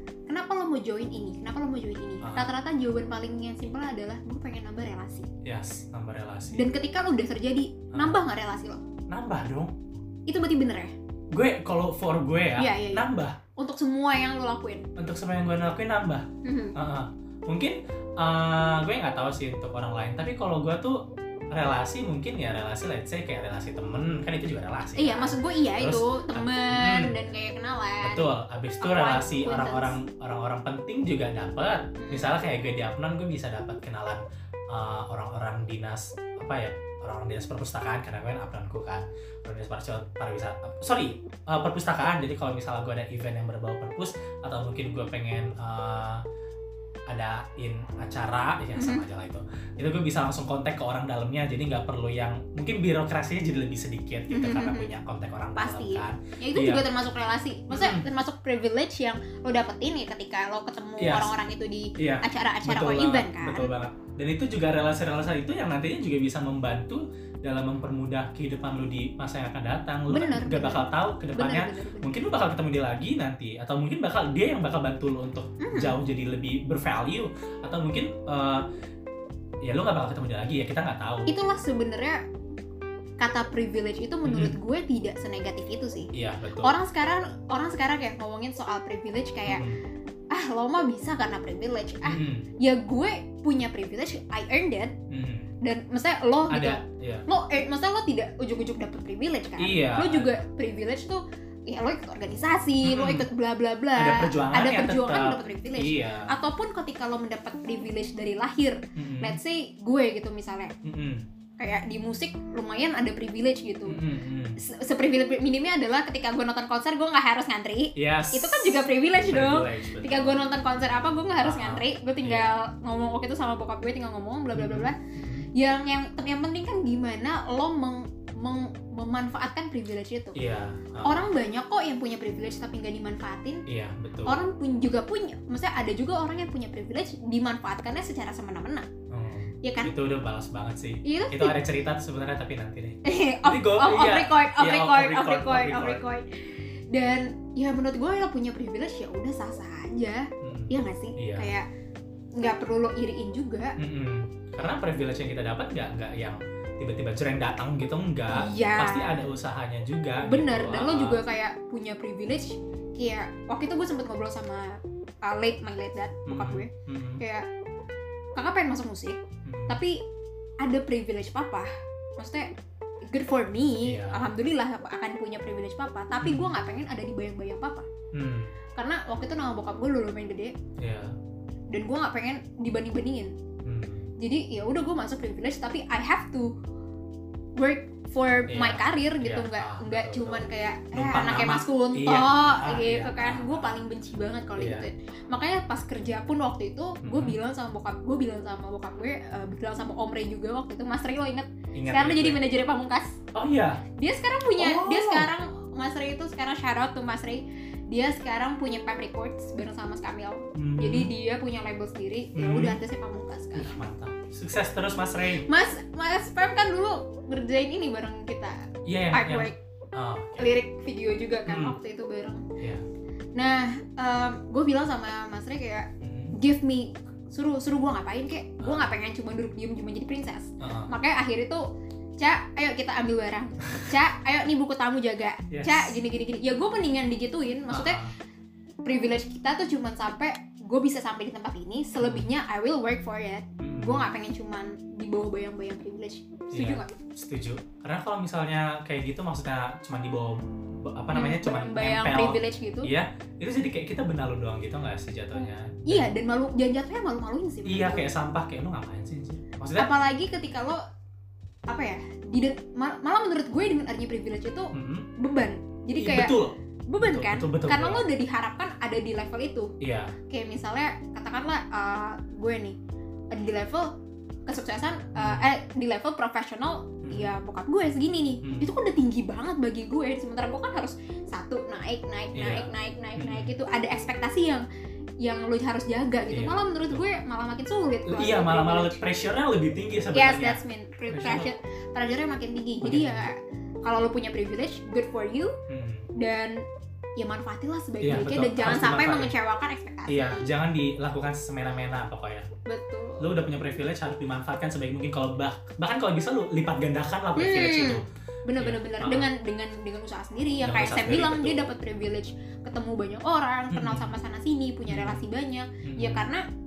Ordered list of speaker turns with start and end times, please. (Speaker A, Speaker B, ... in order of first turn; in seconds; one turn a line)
Speaker A: 0.3-5.3
Speaker B: 2.2-2.5
Speaker B: 5.4-6.7
Speaker A: 6.5-8.8
Speaker B: 7.9-8.2
Speaker B: 9.1-9.7
Speaker A: 10.3-10.9
Speaker B: 11.3-13.4
Speaker A: 12.6-13.1
Speaker A: 13.6-14.9
Speaker B: 15.0-27.2
Speaker A: 16.4-16.8
Speaker A: 25.0-30.0
Speaker B: 28.0-46.2
Speaker A: 32.0-32.3
Speaker B: 47.1-56.9
Speaker A: 48.8-49.0
Speaker A: 54.3-54.9
Speaker A: 55.6-63.7
Speaker B: 57.7-58.1
Speaker B: 61.0-61.3
Speaker B: 62.0-78.7
Speaker A: 70.1-72.2
Speaker A: 75.6-76.0
Speaker B: 79.6-81.3
Speaker A: 81.3-82.2
Speaker A: 83.2-86.1
Speaker B: 84.2-84.5
Speaker B: 86.1-86.8
Speaker A: 86.6-89.7
Speaker B: 89.5-89.8
Speaker A: 90.3-95.0
Speaker B: 92.0-92.5
Speaker B: 95.1-95.5
Speaker A: 95.6-110.7
Speaker B: 96.5-97.2
Speaker B: 99.6-100.3
Speaker B: 102.8-103.3
Speaker B: 104.0-106.3
Speaker B: 109.0-109.4
Speaker B: 110.8-111.3
Speaker A: 111.6-114.0
Speaker B: 113.9-114.6
Speaker A: 114.6-125.0
Speaker B: 118.0-120.4
Speaker B: 121.4-122.5
Speaker B: 124.5-125.5
Speaker A: 125.5-130.4
Speaker B: 130.3-131.3
Speaker A: 131.0-133.6
Speaker B: 133.7-134.4
Speaker A: 134.3-138.9
Speaker B: 139.1-146.0
Speaker A: 139.6-139.9
Speaker A: 141.0-141.6
Speaker A: 143.0-151.7
Speaker B: 150.4-151.5
Speaker A: 152.4-153.8
Speaker B: 153.8-161.2
Speaker A: 158.3-159.2
Speaker A: 160.2-167.5
Speaker B: 166.3-167.2
Speaker A: 168.4-170.0
Speaker B: 169.4-169.8
Speaker A: 170.6-172.5
Speaker A: 173.1-177.9
Speaker B: 173.8-174.3
Speaker B: 176.2-176.5
Speaker B: 178.1-178.5
Speaker A: 178.8-180.5
Speaker B: 180.8-181.1
Speaker A: 181.7-183.3
Speaker B: 183.6-184.1
Speaker A: 184.2-186.5
Speaker A: 187.6-203.2
Speaker B: 188.5-193.8
Speaker B: 194.6-194.9
Speaker B: 197.0-197.4
Speaker B: 201.7-202.4
Speaker B: 203.3-203.8
Speaker A: 204.0-213.8
Speaker B: 204.6-205.3
Speaker B: 210.6-211.1
Speaker B: 212.3-212.8
Speaker B: 213.6-215.5
Speaker A: 215.4-219.6
Speaker B: 218.8-220.5
Speaker A: 220.4-222.4
Speaker B: 221.5-221.8
Speaker B: 222.6-222.8
Speaker A: 223.4-231.7
Speaker B: 226.0-226.3
Speaker B: 228.6-228.9
Speaker B: 230.6-230.9
Speaker A: 232.2-238.0
Speaker B: 235.5-235.9
Speaker B: 237.7-238.1
Speaker A: 238.8-246.9
Speaker B: 242.0-242.3
Speaker B: 243.6-244.1
Speaker B: 246.5-256.1
Speaker A: 251.1-252.9
Speaker A: 255.4-258.1
Speaker B: 257.6-259.9
Speaker A: 259.8-260.8
Speaker A: 261.7-266.3
Speaker B: 264.7-265.1
Speaker B: 266.0-268.1
Speaker A: 266.9-269.7
Speaker B: 269.8-270.1
Speaker A: 270.3-272.8
Speaker A: 273.3-273.9
Speaker A: 274.5-284.6
Speaker B: 275.1-275.5
Speaker B: 277.0-277.3
Speaker B: 278.4-278.7
Speaker B: 282.4-283.5
Speaker A: 285.2-289.1
Speaker B: 286.3-287.1
Speaker B: 288.1-291.5
Speaker A: 290.1-295.6
Speaker B: 292.8-293.3
Speaker B: 295.7-296.1
Speaker A: 296.2-296.6
Speaker A: 297.2-300.5
Speaker B: 298.0-299.3
Speaker B: 300.1-302.5
Speaker A: 302.7-303.3
Speaker B: 303.2-308.0
Speaker A: 307.4-316.4
Speaker B: 308.6-309.3
Speaker B: 310.6-311.7
Speaker B: 313.7-314.1
Speaker B: 314.9-315.2
Speaker B: 315.8-316.3